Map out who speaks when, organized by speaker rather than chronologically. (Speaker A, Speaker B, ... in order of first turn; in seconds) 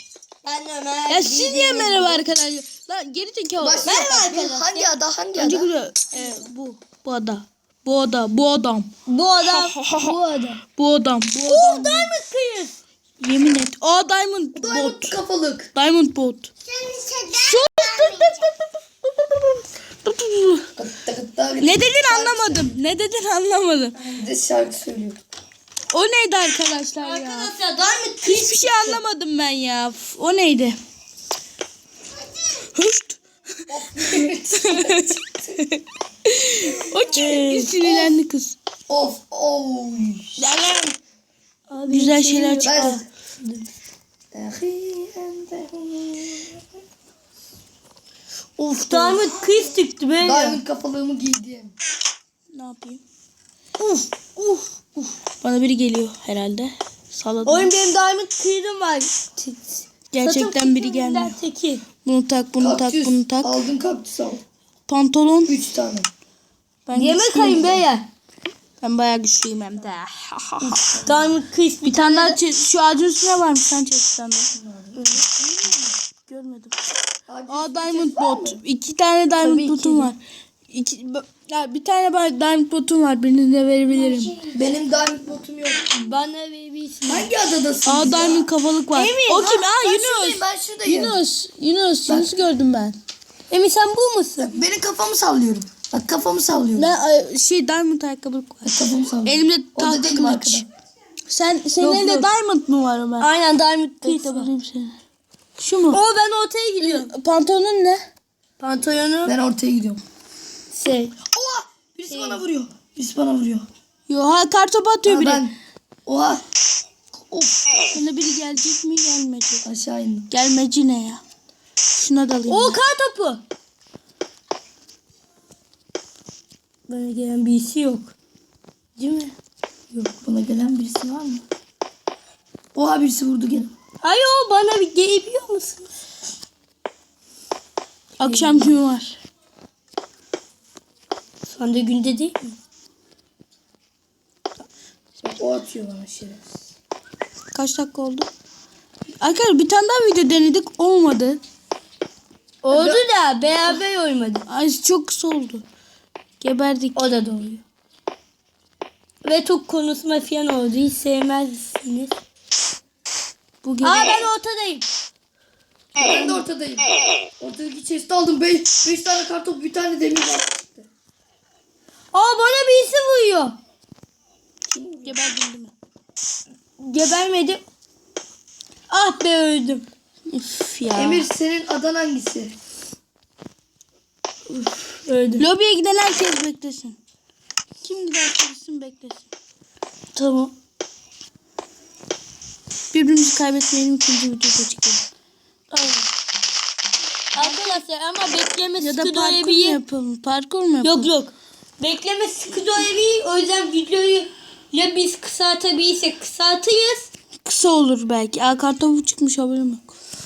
Speaker A: 0.4-2.2, 3.8-4.9, 9.1-9.8, 11.4-12.7, 16.7-18.3, 27.0-29.0, 37.2-37.7, 41.7-43.7, 48.7-50.6, 53.8-55.1, 57.4-61.8, 66.9-68.1, 71.0-72.4, 74.9-75.3, 79.4-80.1, 84.1-84.5, 85.9-87.3, 88.9-89.6, 93.5-94.6, 103.2-104.5, 105.9-107.1, 108.6-109.3, 110.7-111.1, 112.1-112.5, 122.5-123.4, 126.9-128.1, 129.0-129.3, 134.0-135.9, 138.2-138.7, 141.5-142.6, 152.6-154.5, 156.9-157.6, 159.2-162.2, 163.8-164.8, 172.1-173.6, 176.8-177.6, 178.9-179.8, 184.6-185.4, 190.1-190.5, 195.7-196.1, 197.3-199.8, 200.8-207.1
Speaker B: 1.1-4.0, 5.3-8.9, 9.8-10.1, 10.8-12.1, 13.2-15.2, 15.7-16.5, 17.4-20.7, 21.6-23.9, 25.9-27.5, 28.2-30.8, 32.6-33.2, 34.1-38.6, 40.4-41.0, 41.9-43.0, 52.5-53.0, 55.4-57.7, 60.1-61.4, 62.0-63.6, 64.9-65.6, 66.8-67.8, 68.8-70.8, 71.8-74.5, 76.2-76.7, 77.5-80.2, 80.7-84.3, 87.8-93.0, 96.7-100.7, 101.3-103.3, 104.0-104.9, 105.6-106.0, 106.8-108.0, 114.1-115.5, 117.9-119.6, 120.3-121.2, 121.9-122.8, 138.2-139.2, 147.5-148.3, 149.2-151.4, 154.5-155.6, 156.4-157.0, 163.6-164.2, 175.0-175.7, 180.3-181.3, 185.4-186.9, 187.8-189.3, 192.9-195.0, 197.4-197.7, 198.8-201.1, 207.4-209.9
Speaker C: 3.6-5.7, 10.0-10.6, 14.5-15.7, 20.8-22.7, 23.9-25.2, 33.7-35.6, 37.1-38.1, 38.9-40.4, 42.6-43.0, 44.3-46.6, 48.6-49.2, 50.2-51.7, 62.6-64.4, 65.5-66.1, 70.6-71.3, 74.5-75.0, 77.3-78.6, 84.5-86.1, 87.1-88.5, 89.4-91.2, 92.1-92.3, 94.4-96.9, 98.6-100.7, 101.8-102.3, 109.2-110.0, 111.3-113.7, 115.0-115.5, 116.0-116.4, 117.3-117.9, 119.6-120.3, 130.1-131.4, 132.7-133.7, 145.2-146.5, 152.7-153.0, 165.9-166.9, 167.4-170.9, 174.7-175.2, 180.9-182.5